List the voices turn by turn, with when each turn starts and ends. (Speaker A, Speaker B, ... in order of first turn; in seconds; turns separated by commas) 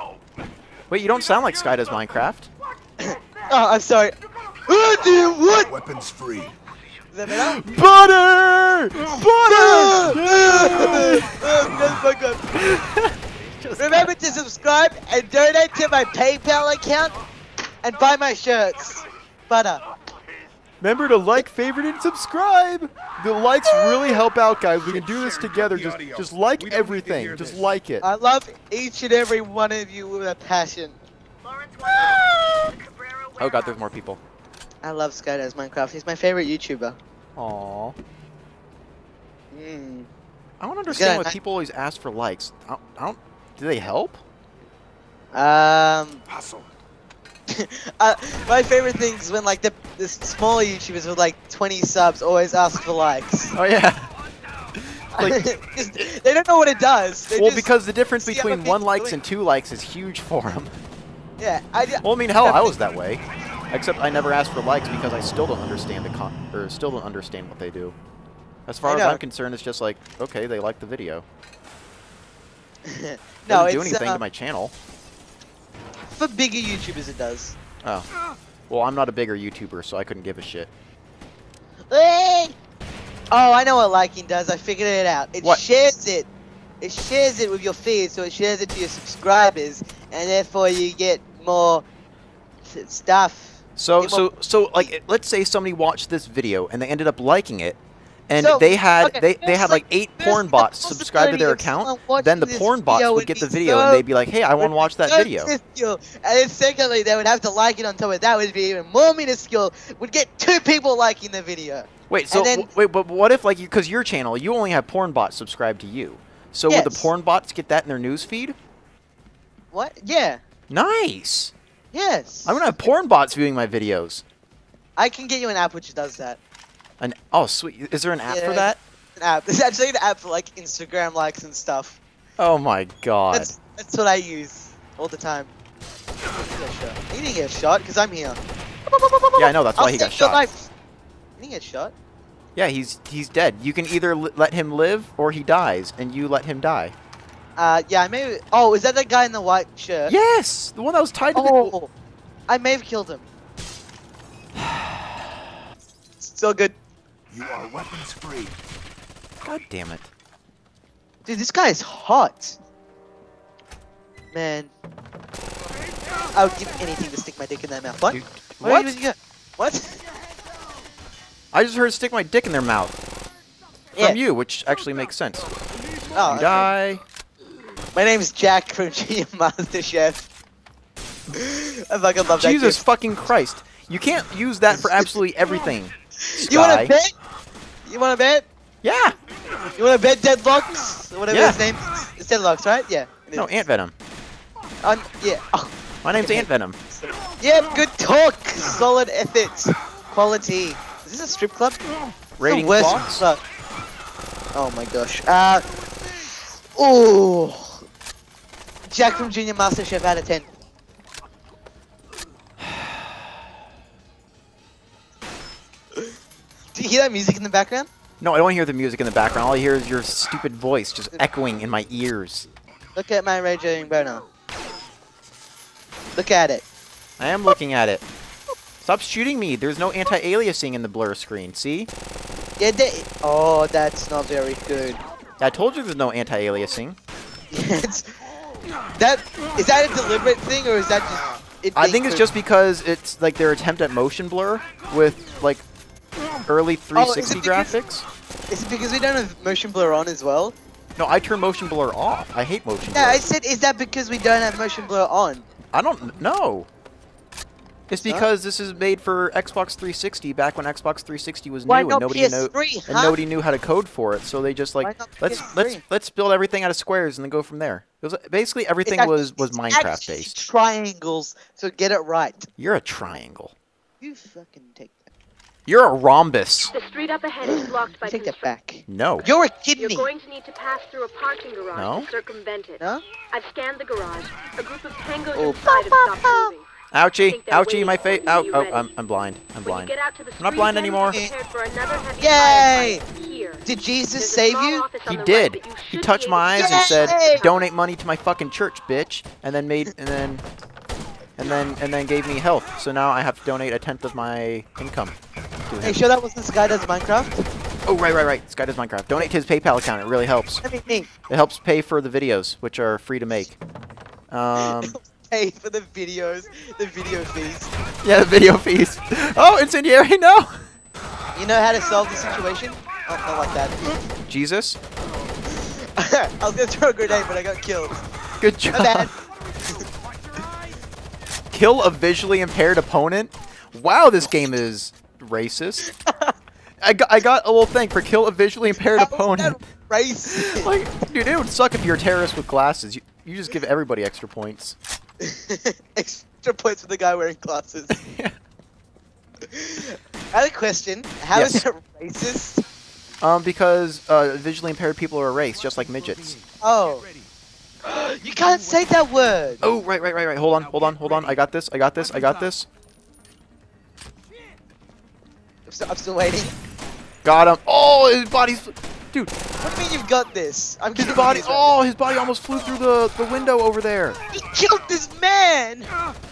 Speaker A: 0.9-2.5, Speaker B: 3.0-4.2, Speaker B: 4.7-5.7, Speaker C: 5.7-6.5, Speaker B: 7.1-7.6, Speaker A: 7.3-12.0, Speaker B: 9.4-12.5, Speaker A: 12.5-14.1, Speaker B: 13.8-17.1, Speaker B: 17.8-19.8, Speaker A: 20.8-28.1, Speaker C: 24.8-27.7, Speaker B: 28.0-30.9, Speaker A: 33.4-34.2, Speaker B: 34.8-37.0, Speaker A: 37.4-38.0, Speaker B: 39.5-40.1, Speaker A: 40.6-44.2, Speaker B: 40.9-41.3, Speaker B: 45.3-46.2, Speaker B: 47.5-53.5, Speaker A: 53.5-54.1, Speaker A: 54.7-55.4, Speaker B: 55.1-59.2, Speaker A: 57.3-60.7, Speaker B: 61.4-62.8, Speaker A: 62.0-67.9, Speaker A: 68.7-71.2, Speaker B: 68.8-69.2, Speaker B: 72.8-74.2, Speaker A: 73.5-74.7, Speaker B: 76.1-77.5, Speaker A: 77.8-78.1, Speaker A: 78.7-80.7, Speaker B: 81.9-82.5, Speaker B: 83.3-86.3, Speaker B: 86.8-91.8, Speaker B: 92.6-94.9, Speaker A: 93.8-105.5, Speaker B: 98.4-104.0, Speaker B: 104.6-112.7, Speaker A: 112.1-118.5, Speaker B: 116.7-117.1, Speaker B: 119.7-120.4, Speaker A: 120.7-121.5, Speaker B: 121.9-122.6, Speaker A: 122.5-124.2, Speaker B: 125.0-126.4, Speaker A: 127.0-128.7, Speaker B: 128.3-132.0, Speaker A: 132.4-133.5, Speaker B: 133.3-135.5, Speaker B: 136.4-140.7, Speaker A: 139.4-140.5, Speaker B: 141.4-141.9, Speaker A: 142.5-146.9, Speaker B: 147.6-150.1, Speaker A: 150.1-151.7, Speaker B: 151.3-151.9, Speaker B: 152.5-153.2, Speaker B: 156.2-156.8, Speaker C: 157.3-158.6, Speaker A: 159.4-160.1, Speaker B: 161.2-162.6, Speaker B: 164.3-164.7, Speaker B: 166.3-170.0, Speaker A: 168.1-169.0, Speaker A: 171.5-173.0, Speaker A: 174.0-175.5, Speaker B: 176.1-176.7, Speaker A: 176.3-177.0, Speaker B: 177.9-180.3, Speaker B: 181.3-182.8, Speaker A: 182.3-186.9, Speaker B: 186.2-187.1, Speaker B: 187.8-188.5, Speaker A: 188.8-189.2, Speaker B: 189.8-193.7, Speaker A: 191.3-191.6, Speaker A: 193.3-193.9, Speaker B: 194.8-201.8, Speaker A: 196.0-196.8, Speaker A: 202.4-203.3, Speaker B: 202.4-203.4, Speaker B: 204.5-205.7, Speaker B: 206.2-207.8, Speaker B: 208.9-210.5, Speaker B: 216.7-217.9, Speaker A: 218.2-222.5, Speaker B: 222.9-224.2, Speaker B: 226.2-226.6, Speaker A: 227.2-228.0, Speaker A: 228.8-231.9, Speaker B: 232.6-235.0, Speaker A: 235.4-236.9, Speaker B: 237.5-238.1, Speaker B: 239.0-242.3, Speaker A: 241.8-245.6, Speaker A: 246.4-248.1, Speaker B: 246.9-247.7, Speaker B: 248.5-250.5, Speaker A: 251.0-253.3, Speaker B: 252.9-255.4, Speaker A: 255.7-256.7, Speaker A: 257.9-270.3, Speaker B: 258.0-258.3, Speaker B: 261.7-263.2, Speaker B: 264.8-265.8, Speaker B: 268.9-272.5, Speaker A: 272.6-273.5, Speaker B: 274.0-275.1, Speaker A: 275.7-276.7, Speaker D: 276.7-278.5, Speaker B: 277.5-280.1, Speaker A: 278.9-279.3, Speaker D: 279.8-286.6, Speaker A: 281.7-282.1, Speaker B: 285.3-286.5, Speaker A: 286.9-291.2, Speaker D: 287.2-288.9, Speaker D: 289.6-297.5, Speaker B: 292.2-293.0, Speaker B: 293.6-294.8, Speaker A: 295.1-300.4, Speaker B: 296.6-297.5, Speaker A: 301.4-305.1, Speaker A: 305.7-306.0, Speaker B: 305.8-307.4, Speaker A: 307.9-310.6, Speaker B: 310.6-311.1, Speaker A: 311.3-313.6, Speaker A: 314.3-315.0, Speaker B: 314.6-317.7, Speaker A: 318.0-320.5, Speaker B: 321.3-324.0, Speaker A: 324.3-324.8, Speaker B: 325.4-328.0, Speaker A: 328.4-329.1, Speaker B: 328.7-329.1, Speaker A: 331.5-335.9, Speaker B: 335.8-336.3, Speaker A: 336.8-339.6, Speaker B: 339.0-340.7, Speaker A: 340.3-344.8, Speaker B: 345.2-348.0, Speaker A: 347.9-348.3, Speaker B: 349.5-352.6, Speaker A: 351.3-351.6, Speaker A: 353.2-356.4, Speaker C: 355.7-357.3, Speaker B: 356.6-357.1, Speaker B: 357.8-359.6, Speaker C: 358.3-359.6, Speaker A: 359.6-362.7, Speaker B: 365.7-366.5, Speaker A: 367.2-369.4, Speaker B: 369.6-371.7, Speaker A: 370.9-374.2, Speaker B: 374.3-375.9